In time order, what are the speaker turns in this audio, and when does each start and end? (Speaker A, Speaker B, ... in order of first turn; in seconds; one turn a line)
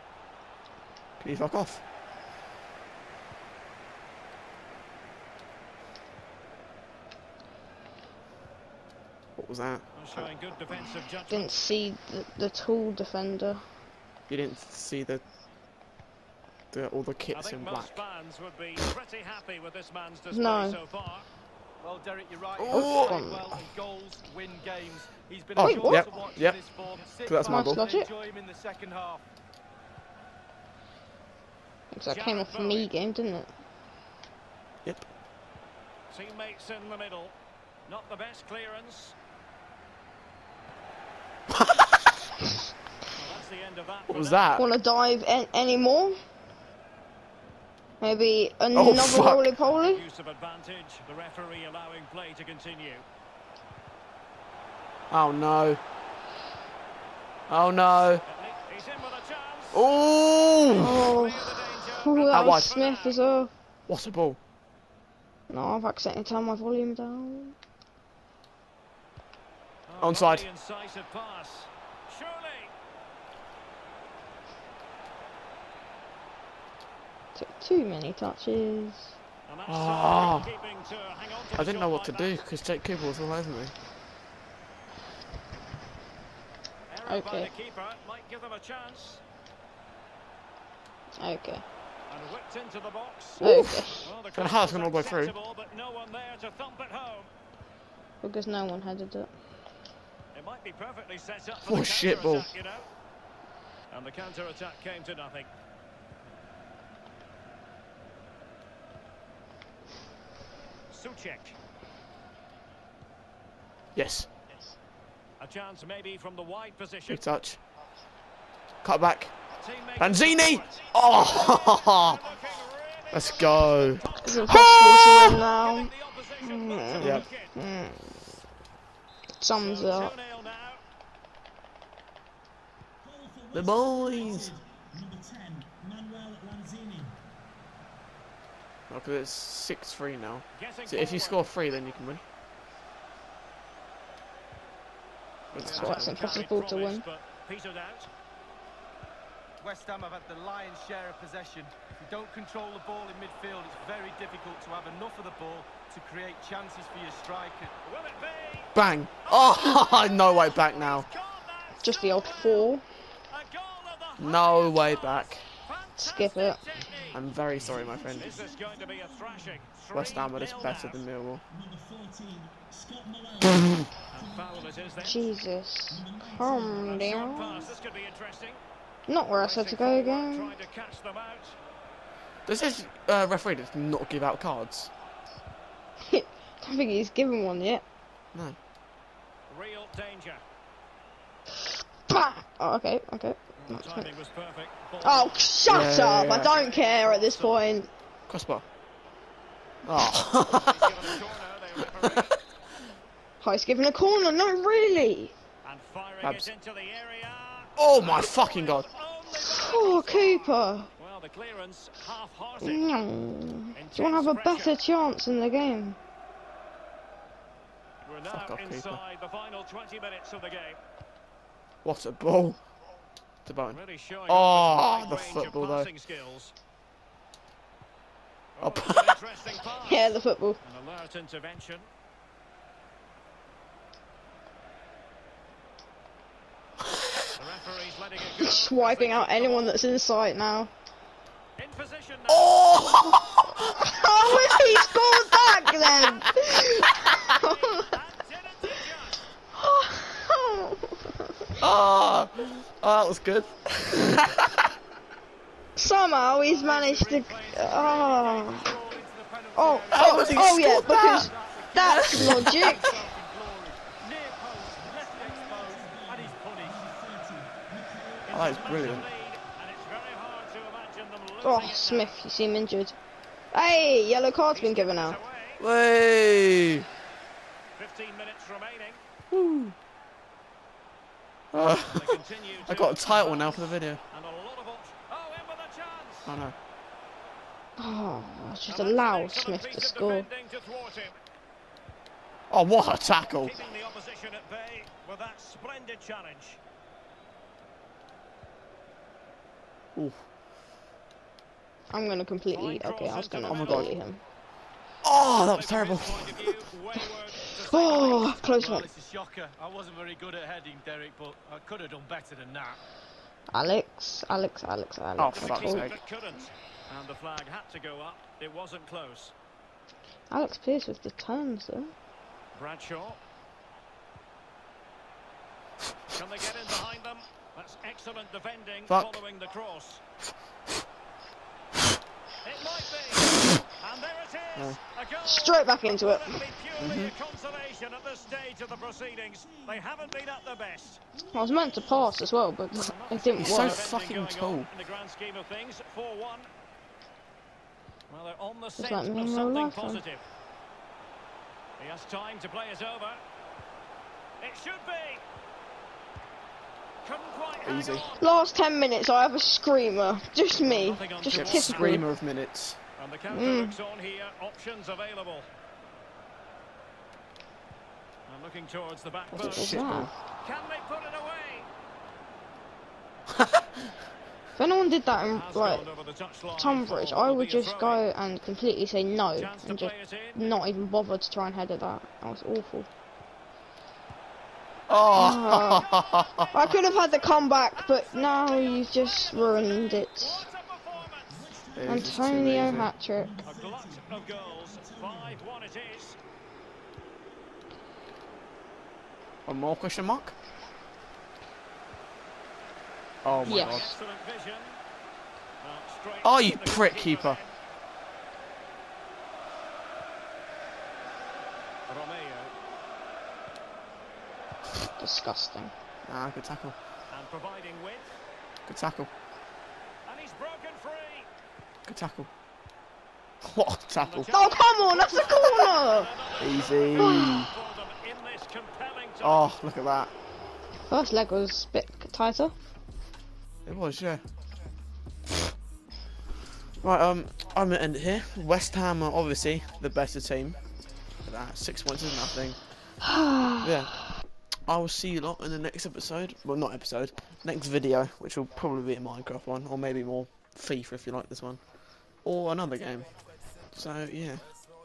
Speaker A: 1.2-1.8
Speaker A: 9.3-9.8
Speaker B: 9.9-11.6
Speaker C: 10.7-13.7
Speaker A: 14.3-15.2
Speaker A: 16.7-17.9
Speaker B: 17.3-21.3
Speaker C: 20.3-20.8
Speaker D: 21.8-29.2
Speaker A: 22.6-23.2
Speaker C: 22.7-23.4
Speaker A: 25.6-26.6
Speaker C: 25.6-26.1
Speaker A: 27.2-27.8
Speaker C: 27.4-28.1
Speaker C: 31.9-33.5
Speaker B: 32.1-32.9
Speaker B: 36.1-37.4
Speaker B: 37.9-39.1
Speaker A: 41.5-42.2
Speaker B: 43.1-44.4
Speaker A: 44.1-44.6
Speaker C: 44.6-46.2
Speaker C: 48.0-50.0
Speaker A: 48.7-49.5
Speaker B: 49.7-53.0
Speaker A: 55.1-55.8
Speaker A: 57.5-58.2
Speaker B: 58.2-59.9
Speaker A: 59.7-61.1
Speaker B: 60.6-63.2
Speaker C: 60.8-63.5
Speaker A: 62.3-62.7
Speaker A: 63.9-64.4
Speaker C: 65.5-67.5
Speaker B: 69.9-72.7
Speaker A: 70.0-70.5
Speaker C: 77.3-79.1
Speaker B: 79.5-82.4
Speaker A: 79.7-80.5
Speaker A: 81.5-83.7
Speaker B: 86.9-89.2
Speaker C: 87.1-87.5
Speaker C: 91.1-91.6
Speaker B: 92.1-97.3
Speaker C: 93.4-94.1
Speaker A: 93.4-95.3
Speaker C: 98.2-99.3
Speaker B: 100.3-102.9
Speaker A: 101.6-102.5
Speaker B: 103.9-105.5
Speaker B: 110.9-111.5
Speaker A: 113.9-114.3
Speaker B: 115.4-117.2
Speaker A: 117.1-117.6
Speaker A: 118.8-119.3
Speaker B: 119.6-127.5
Speaker A: 120.0-122.2
Speaker A: 123.1-125.4
Speaker C: 124.2-128.2
Speaker A: 127.0-127.3
Speaker C: 129.4-130.1
Speaker B: 129.6-130.8
Speaker E: 133.0-137.2
Speaker A: 133.5-134.5
Speaker A: 138.9-142.2
Speaker B: 140.5-141.4
Speaker A: 145.5-146.4
Speaker B: 145.5-148.1
Speaker C: 145.6-147.0
Speaker D: 149.6-157.7
Speaker B: 157.8-158.7
Speaker A: 158.7-161.1
Speaker B: 159.2-162.7
Speaker C: 161.8-162.8
Speaker B: 163.3-167.2
Speaker A: 164.2-165.4
Speaker C: 166.0-166.6
Speaker A: 167.1-168.3
Speaker E: 167.5-169.7
Speaker B: 168.2-171.0
Speaker A: 169.9-171.4
Speaker E: 171.5-174.9
Speaker B: 174.1-175.3
Speaker C: 175.0-177.7
Speaker E: 175.9-177.5
Speaker B: 176.9-178.6
Speaker C: 179.1-180.5
Speaker B: 179.4-181.6
Speaker A: 182.4-184.9
Speaker C: 186.1-187.8
Speaker B: 189.5-190.4
Speaker C: 192.1-194.1
Speaker B: 193.6-197.7
Speaker C: 195.0-197.9
Speaker A: 195.7-196.5
Speaker A: 198.3-198.6
Speaker A: 199.8-201.1
Speaker B: 200.5-202.4
Speaker A: 201.9-202.3
Speaker C: 203.4-205.3
Speaker B: 205.6-212.9
Speaker A: 206.2-206.5
Speaker A: 207.8-208.9
Speaker C: 209.3-210.9
Speaker C: 212.6-216.0
Speaker B: 213.7-214.8
Speaker B: 218.0-220.8
Speaker A: 218.3-219.0
Speaker A: 221.8-222.6
Speaker A: 223.4-225.9
Speaker B: 223.7-226.5
Speaker B: 228.6-231.9
Speaker A: 228.6-229.2
Speaker C: 229.8-230.6
Speaker A: 236.8-237.3
Speaker B: 237.3-239.8
Speaker C: 238.4-240.7
Speaker B: 241.6-243.1
Speaker A: 242.3-244.9
Speaker C: 243.7-247.9
Speaker A: 245.5-247.1
Speaker B: 247.2-249.3
Speaker C: 249.5-251.3
Speaker A: 251.6-254.7
Speaker C: 255.8-258.8
Speaker D: 256.4-266.8
Speaker C: 259.6-262.8
Speaker A: 259.9-261.3
Speaker A: 261.8-262.9
Speaker E: 264.8-269.1
Speaker B: 268.3-272.1
Speaker A: 268.3-269.1
Speaker C: 271.4-273.0
Speaker C: 273.5-275.2
Speaker B: 274.5-275.6
Speaker A: 275.6-276.9
Speaker B: 277.8-279.0
Speaker A: 279.3-279.7
Speaker A: 281.5-284.0
Speaker B: 281.9-286.4
Speaker A: 286.3-286.6
Speaker C: 287.8-290.3
Speaker B: 288.7-291.2
Speaker A: 292.5-293.5
Speaker B: 293.3-296.6
Speaker A: 299.9-300.2
Speaker C: 301.9-304.2
Speaker B: 302.5-303.9
Speaker A: 303.5-303.9
Speaker A: 305.0-306.5
Speaker B: 305.3-308.5
Speaker C: 307.6-308.9
Speaker D: 308.5-312.8
Speaker C: 313.5-315.9
Speaker A: 315.2-316.0
Speaker B: 315.3-319.3
Speaker C: 320.3-321.9
Speaker B: 322.5-323.2
Speaker B: 326.1-330.0
Speaker A: 328.9-329.2
Speaker B: 332.4-341.0
Speaker C: 335.2-336.4
Speaker A: 336.8-337.1
Speaker E: 339.4-339.9
Speaker C: 341.3-343.8
Speaker E: 341.3-342.2
Speaker B: 342.7-346.5
Speaker A: 343.4-344.7
Speaker B: 348.1-350.2
Speaker C: 348.8-350.0
Speaker B: 351.8-353.2
Speaker B: 354.4-355.2
Speaker B: 357.0-358.2
Speaker A: 357.6-358.1
Speaker C: 358.2-362.1
Speaker B: 360.6-362.1
Speaker A: 361.3-362.8
Speaker B: 363.0-365.5
Speaker C: 363.3-363.8
Speaker B: 368.3-371.7
Speaker A: 369.3-370.1
Speaker C: 369.4-370.1
Speaker A: 373.3-373.9
Speaker C: 374.6-375.9
Speaker B: 375.3-378.0
Speaker C: 376.6-382.9
Speaker B: 379.4-380.4
Speaker A: 384.9-386.7
Speaker C: 385.1-385.9
Speaker B: 385.3-391.6
Speaker C: 386.5-390.5
Speaker E: 391.3-395.4
Speaker A: 391.7-392.9
Speaker C: 391.8-393.3
Speaker B: 393.4-396.2
Speaker A: 399.4-400.3
Speaker A: 403.2-403.9
Speaker B: 403.3-404.8
Speaker C: 403.4-403.9
Speaker B: 405.6-407.5
Speaker A: 406.2-407.4
Speaker B: 411.9-412.5
Speaker C: 415.0-415.7
Speaker A: 416.1-416.8
Speaker B: 417.1-418.1
Speaker A: 418.7-419.1
Speaker B: 420.1-421.3
Speaker A: 421.9-422.3
Speaker A: 423.4-424.3
Speaker B: 424.0-429.5
Speaker C: 424.3-426.1
Speaker A: 426.4-427.5
Speaker C: 427.0-427.5
Speaker A: 429.2-430.1
Speaker C: 430.9-432.5
Speaker A: 433.6-434.2
Speaker A: 436.8-440.6
Speaker A: 441.2-442.6
Speaker C: 443.0-443.7
Speaker A: 443.6-444.1
Speaker A: 444.6-451.6
Speaker A: 452.2-453.1
Speaker A: 453.7-454.4